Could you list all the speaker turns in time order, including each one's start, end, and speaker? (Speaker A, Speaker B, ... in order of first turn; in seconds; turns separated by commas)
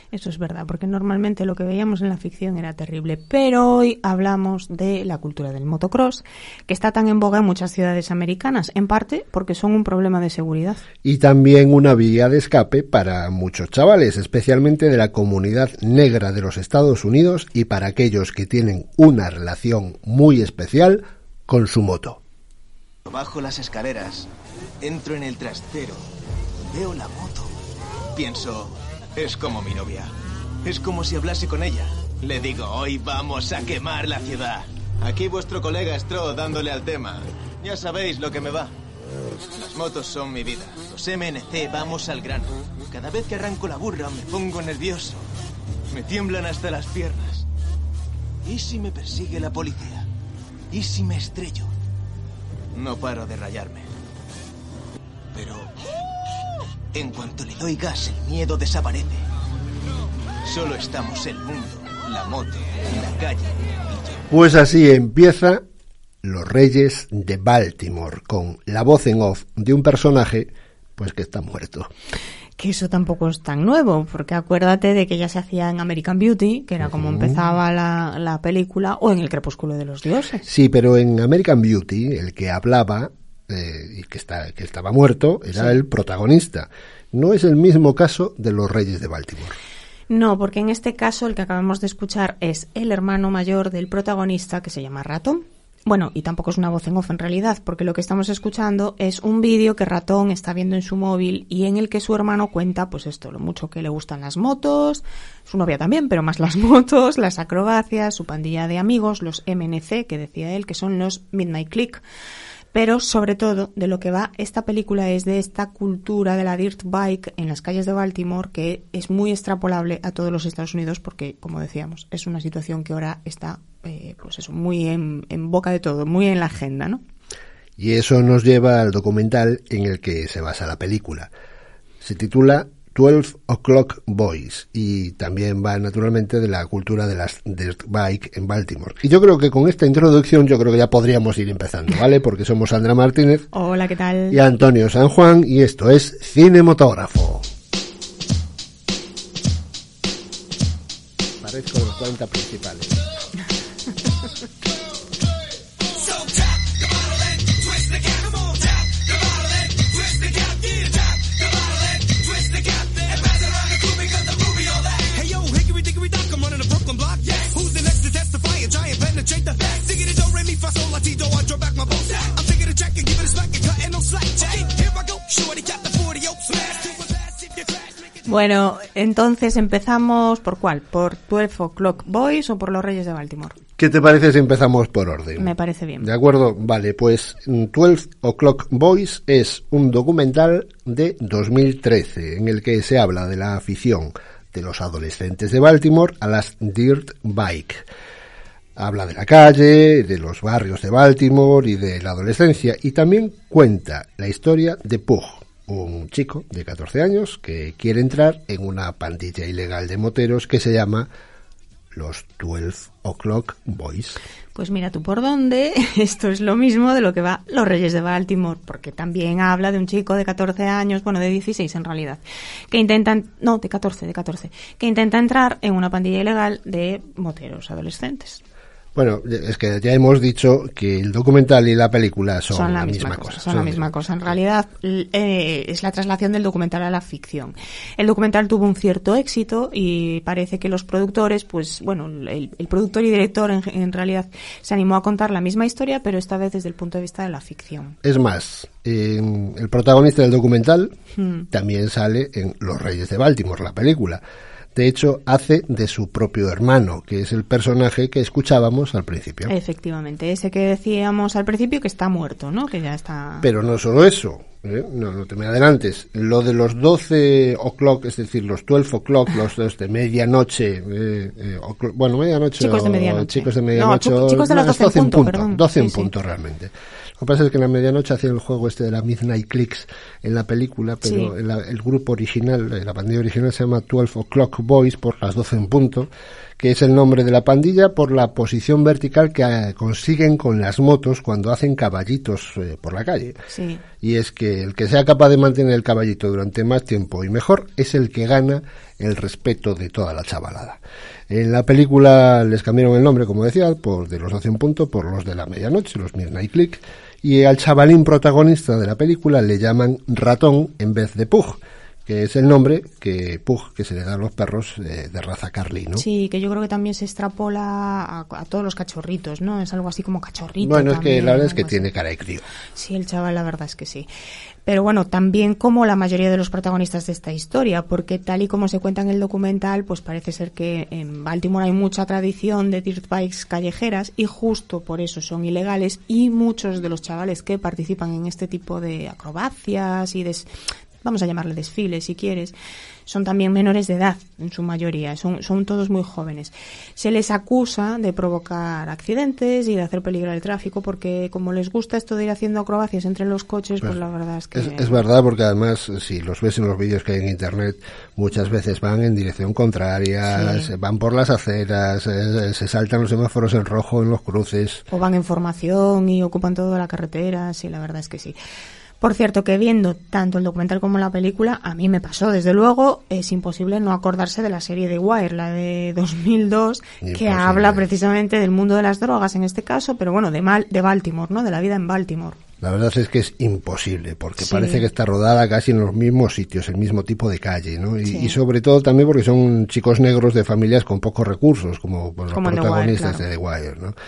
Speaker A: 0.1-10.8, Speaker B: 11.0-22.2, Speaker C: 23.1-24.3, Speaker C: 24.8-26.1, Speaker C: 26.6-27.6, Speaker C: 28.1-30.1, Speaker C: 30.6-38.7, Speaker C: 39.6-45.3, Speaker C: 45.9-47.5, Speaker C: 48.4-50.1, Speaker C: 50.7-51.7, Speaker C: 52.7-53.9, Speaker C: 55.3-55.7, Speaker C: 56.9-59.2, Speaker C: 60.4-64.2, Speaker B: 64.3-65.6, Speaker B: 66.2-71.9, Speaker A: 72.6-80.5, Speaker B: 76.8-77.4, Speaker B: 80.5-89.6, Speaker A: 90.1-112.0, Speaker A: 112.7-127.0, Speaker B: 127.8-131.3, Speaker B: 132.0-143.5, Speaker A: 143.5-144.4, Speaker B: 144.3-147.5, Speaker B: 151.4-152.9, Speaker D: 155.9-178.1, Speaker A: 178.2-183.6, Speaker B: 183.8-197.8, Speaker A: 185.4-186.1, Speaker B: 198.8-211.1, Speaker B: 211.9-214.2, Speaker A: 214.5-228.4, Speaker B: 228.9-233.9, Speaker A: 232.5-247.9, Speaker B: 248.0-250.9, Speaker A: 251.2-251.4, Speaker B: 251.5-254.2, Speaker B: 254.7-259.5, Speaker A: 259.5-263.5, Speaker B: 263.4-293.4, Speaker A: 272.6-276.1, Speaker A: 281.0-281.3, Speaker A: 293.5-293.8, Speaker B: 294.0-300.8, Speaker B: 301.3-316.0, Speaker A: 315.9-321.9, Speaker B: 320.6-322.5, Speaker A: 322.7-324.1, Speaker A: 324.6-340.5, Speaker A: 341.0-342.5, Speaker A: 343.1-355.0, Speaker B: 354.5-364.8, Speaker A: 360.3-360.7, Speaker A: 364.9-368.4, Speaker A: 369.0-382.4, Speaker B: 377.0-377.8, Speaker B: 382.6-393.9, Speaker A: 384.4-384.9, Speaker A: 388.0-388.4, Speaker A: 392.3-393.2